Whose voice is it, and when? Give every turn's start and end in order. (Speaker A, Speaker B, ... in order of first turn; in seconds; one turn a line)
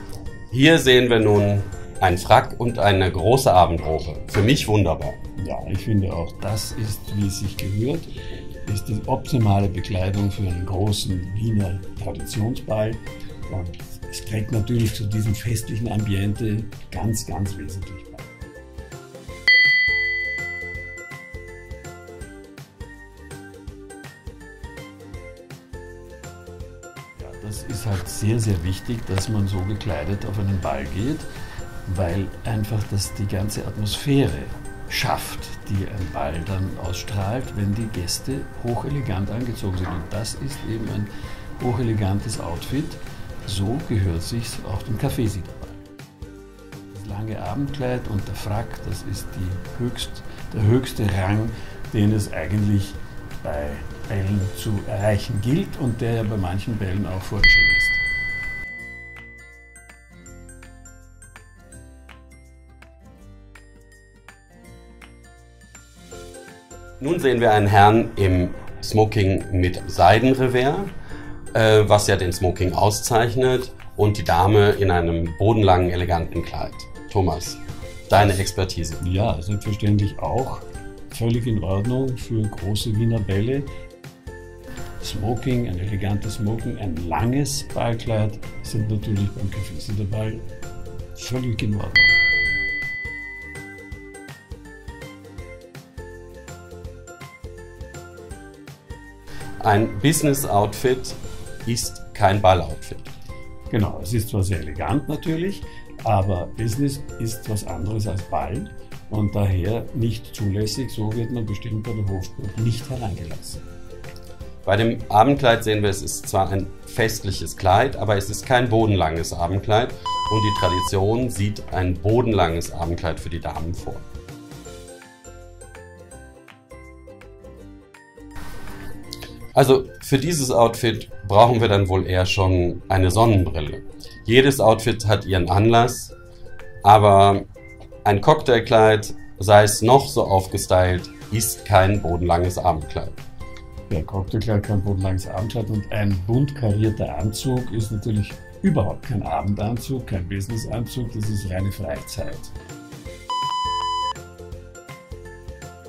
Speaker A: 0.5-5.2
Speaker B: 5.4-8.1
Speaker B: 8.6-18.3
Speaker B: 27.2-31.3
Speaker B: 31.9-45.8
Speaker B: 46.9-58.0
Speaker A: 67.0-70.9
Speaker A: 71.5-79.0
Speaker B: 79.0-83.7
Speaker B: 85.0-90.4
Speaker B: 91.1-92.2
Speaker A: 99.6-103.1
Speaker B: 103.7-113.7
Speaker A: 114.6-124.0
Speaker A: 129.5-136.1
Speaker A: 136.8-137.5
Speaker A: 138.0-143.1
Speaker B: 143.9-152.5